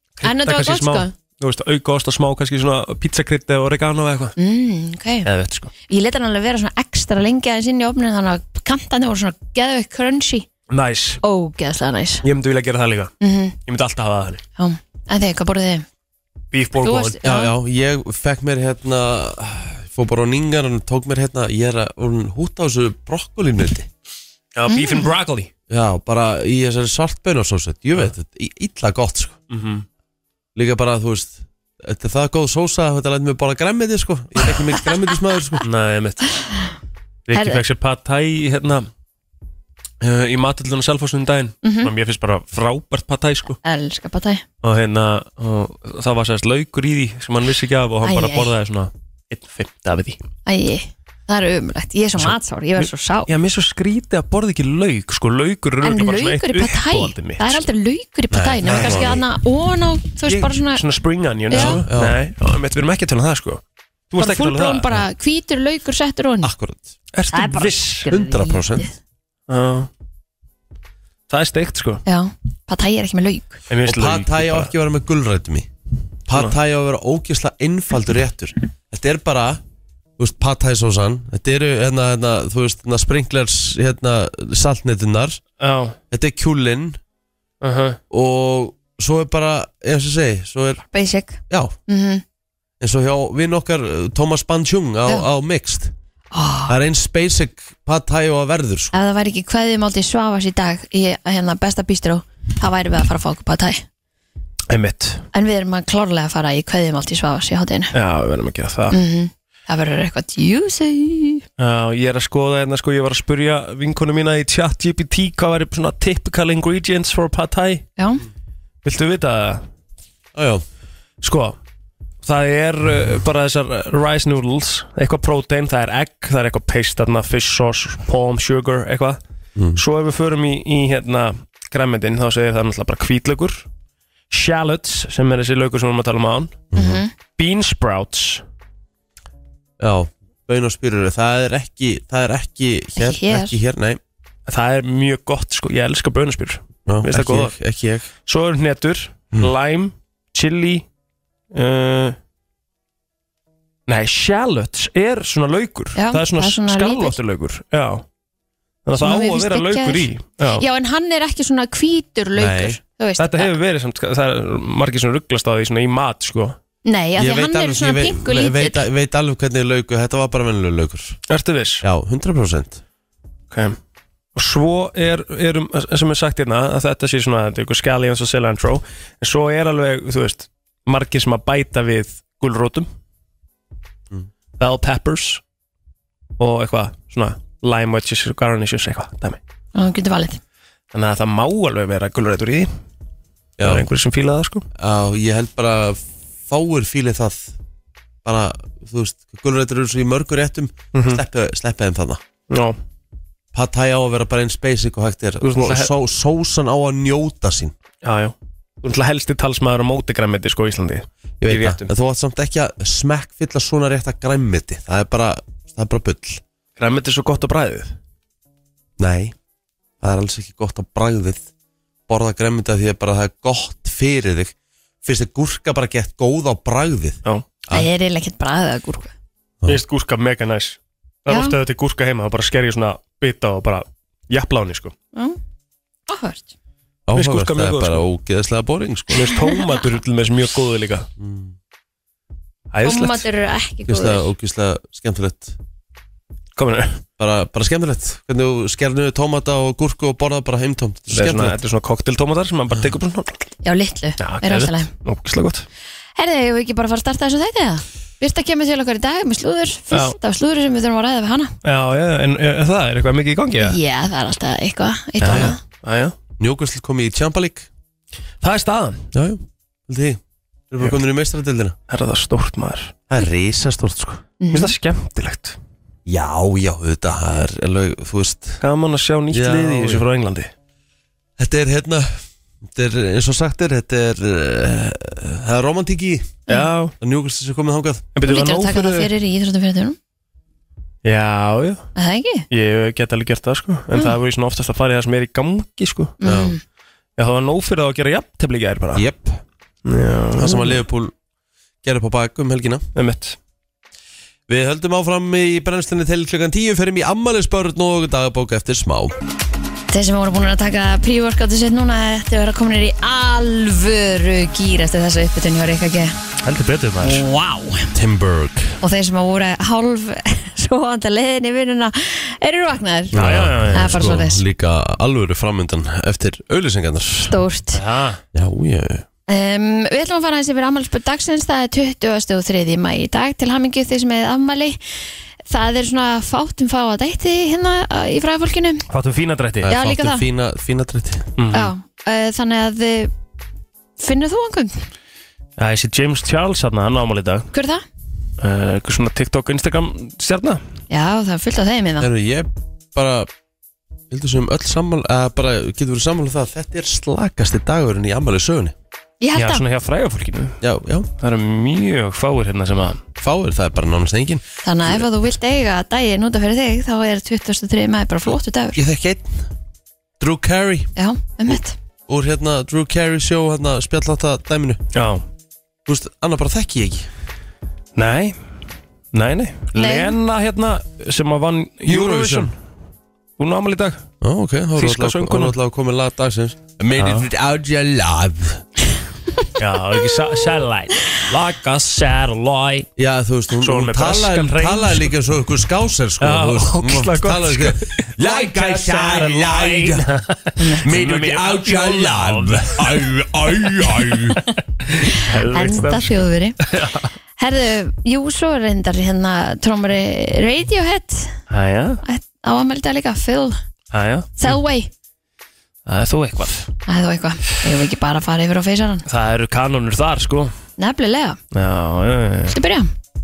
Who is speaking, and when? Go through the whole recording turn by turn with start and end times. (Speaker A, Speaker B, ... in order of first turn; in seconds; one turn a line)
Speaker A: 0.2-4.3
Speaker B: 0.2-1.1
Speaker B: 4.4-5.3
Speaker A: 5.2-5.7
Speaker B: 5.9-10.5
Speaker A: 10.7-11.2
Speaker B: 11.2-12.2
Speaker A: 12.2-13.1
Speaker B: 13.2-13.6
Speaker A: 13.7-14.4
Speaker B: 14.6-15.9
Speaker A: 16.5-17.2
Speaker B: 16.8-17.5
Speaker C: 17.2-23.9
Speaker A: 24.6-25.5
Speaker B: 24.7-25.1
Speaker C: 25.7-29.4
Speaker A: 29.5-29.9
Speaker C: 30.6-35.6
Speaker A: 35.6-36.2
Speaker A: 37.3-38.9
Speaker B: 37.3-37.6
Speaker A: 40.0-43.6
Speaker B: 41.6-41.9
Speaker B: 43.6-44.4
Speaker A: 44.6-50.2
Speaker B: 48.0-48.5
Speaker B: 50.5-53.3
Speaker A: 52.2-57.7
Speaker B: 55.8-60.8
Speaker C: 58.3-59.2
Speaker A: 58.7-59.1
Speaker A: 60.3-65.0
Speaker B: 61.5-61.8
Speaker C: 61.5-62.2
Speaker B: 64.2-66.5
Speaker C: 66.4-67.0
Speaker A: 67.1-68.1
Speaker B: 67.3-68.9
Speaker C: 68.1-68.9
Speaker A: 69.5-69.9
Speaker A: 71.3-72.0
Speaker B: 72.1-73.6
Speaker A: 73.7-74.7
Speaker C: 73.8-75.7
Speaker C: 76.3-79.6
Speaker C: 80.2-85.4
Speaker A: 85.6-86.0
Speaker C: 86.1-87.0
Speaker A: 87.6-88.0
Speaker C: 88.1-90.8
Speaker B: 90.9-92.2
Speaker C: 91.5-91.8
Speaker C: 92.8-95.9
Speaker B: 96.3-96.7
Speaker C: 96.7-98.9
Speaker B: 98.9-103.8
Speaker A: 104.7-105.2
Speaker B: 105.3-107.9
Speaker A: 107.9-109.0
Speaker B: 108.9-111.5
Speaker A: 111.6-117.9
Speaker B: 118.0-118.2
Speaker A: 118.8-119.6
Speaker C: 120.3-120.6
Speaker A: 121.2-121.6
Speaker A: 122.2-129.2
Speaker C: 129.6-129.8
Speaker A: 129.8-133.7
Speaker A: 134.3-136.6
Speaker C: 136.7-137.0
Speaker B: 136.8-137.1
Speaker A: 137.4-138.4
Speaker C: 139.8-144.0
Speaker B: 143.0-143.6
Speaker A: 144.5-147.6
Speaker C: 146.9-148.1
Speaker A: 148.3-150.8
Speaker A: 151.5-152.2
Speaker A: 153.9-158.1
Speaker B: 156.0-157.2
Speaker A: 158.8-160.7
Speaker B: 159.0-163.5
Speaker C: 162.4-162.8
Speaker A: 163.2-166.6
Speaker B: 166.9-168.9
Speaker C: 167.2-171.2
Speaker A: 171.3-171.8
Speaker C: 171.8-172.8
Speaker A: 173.5-173.8
Speaker A: 174.3-182.9
Speaker A: 184.6-185.4
Speaker A: 186.4-189.4
Speaker B: 189.8-190.4
Speaker A: 190.9-192.7
Speaker C: 193.6-193.8
Speaker A: 193.6-194.7
Speaker C: 194.8-197.6
Speaker C: 198.2-202.2
Speaker A: 200.9-201.2
Speaker A: 202.5-202.8
Speaker C: 203.5-207.7
Speaker A: 205.4-205.9
Speaker A: 208.0-211.9
Speaker C: 211.4-216.4
Speaker A: 216.8-217.9
Speaker C: 219.0-219.3
Speaker C: 220.0-221.5
Speaker C: 222.1-227.9
Speaker B: 227.7-229.1
Speaker A: 229.7-234.9
Speaker B: 231.3-231.6
Speaker B: 236.1-236.5
Speaker C: 237.1-239.3
Speaker A: 237.1-238.1
Speaker A: 239.1-241.1
Speaker C: 241.2-241.6
Speaker A: 242.7-243.3
Speaker B: 242.8-244.3
Speaker C: 243.9-245.6
Speaker A: 246.6-247.0
Speaker C: 247.2-251.6
Speaker A: 251.1-253.5
Speaker B: 253.6-254.9
Speaker A: 254.2-255.7
Speaker B: 256.2-261.6
Speaker A: 259.9-260.2
Speaker A: 261.6-263.8
Speaker B: 263.6-265.6
Speaker A: 265.2-266.2
Speaker C: 265.2-265.6
Speaker C: 266.4-267.7
Speaker A: 268.4-269.1
Speaker C: 269.1-271.8
Speaker A: 271.9-272.9
Speaker C: 273.1-274.2
Speaker B: 274.4-274.7
Speaker A: 274.5-275.6
Speaker C: 276.1-278.6
Speaker A: 278.6-280.5
Speaker C: 279.3-280.1
Speaker C: 281.4-286.4
Speaker A: 286.5-286.9
Speaker C: 287.0-288.1
Speaker A: 288.1-289.1
Speaker B: 288.2-290.0
Speaker A: 291.0-291.8
Speaker B: 292.0-292.5
Speaker A: 292.5-296.2
Speaker B: 296.2-296.6
Speaker C: 296.2-296.6
Speaker A: 297.2-299.1
Speaker C: 298.9-299.4
Speaker A: 299.9-300.8
Speaker C: 300.4-301.1
Speaker C: 301.8-302.9
Speaker A: 302.9-303.4
Speaker C: 304.5-309.2
Speaker B: 309.9-316.2
Speaker A: 316.4-317.2
Speaker B: 317.0-317.9
Speaker C: 317.9-318.8
Speaker B: 318.8-324.4
Speaker C: 323.1-327.4
Speaker A: 323.1-324.2
Speaker B: 327.2-327.8
Speaker A: 327.7-328.2
Speaker C: 328.3-329.1
Speaker B: 329.3-334.8
Speaker B: 335.5-338.9
Speaker A: 338.9-339.7
Speaker C: 339.6-341.3
Speaker B: 339.7-340.2
Speaker A: 341.4-341.7
Speaker B: 341.5-343.1
Speaker B: 344.0-344.9
Speaker A: 345.6-347.5
Speaker B: 347.5-347.8
Speaker A: 348.4-350.6
Speaker B: 350.9-352.1
Speaker C: 352.0-353.3
Speaker C: 354.1-358.7
Speaker B: 359.2-359.6
Speaker A: 359.4-360.6
Speaker C: 360.6-361.1
Speaker A: 361.2-363.0
Speaker C: 363.2-365.0
Speaker B: 364.6-368.8
Speaker C: 368.8-369.5
Speaker C: 370.2-370.9
Speaker B: 371.0-371.8
Speaker C: 372.1-374.8
Speaker A: 374.9-375.2
Speaker C: 375.9-377.1
Speaker A: 378.0-378.4
Speaker A: 379.1-382.5
Speaker B: 379.8-380.1
Speaker C: 381.9-382.5
Speaker A: 383.4-384.0
Speaker C: 384.2-388.6
Speaker A: 384.8-385.6
Speaker A: 387.0-387.3
Speaker A: 389.6-392.9
Speaker C: 393.0-400.1
Speaker A: 393.6-395.1
Speaker A: 396.2-403.1
Speaker C: 400.8-404.4
Speaker A: 404.3-407.1
Speaker B: 405.1-406.6
Speaker B: 407.4-411.4
Speaker A: 411.5-412.0
Speaker B: 412.0-413.6
Speaker A: 413.9-414.6
Speaker B: 414.4-414.9
Speaker A: 415.9-416.7
Speaker B: 416.9-419.1
Speaker A: 419.1-420.5
Speaker B: 420.8-421.4
Speaker A: 421.5-422.6
Speaker B: 422.5-422.9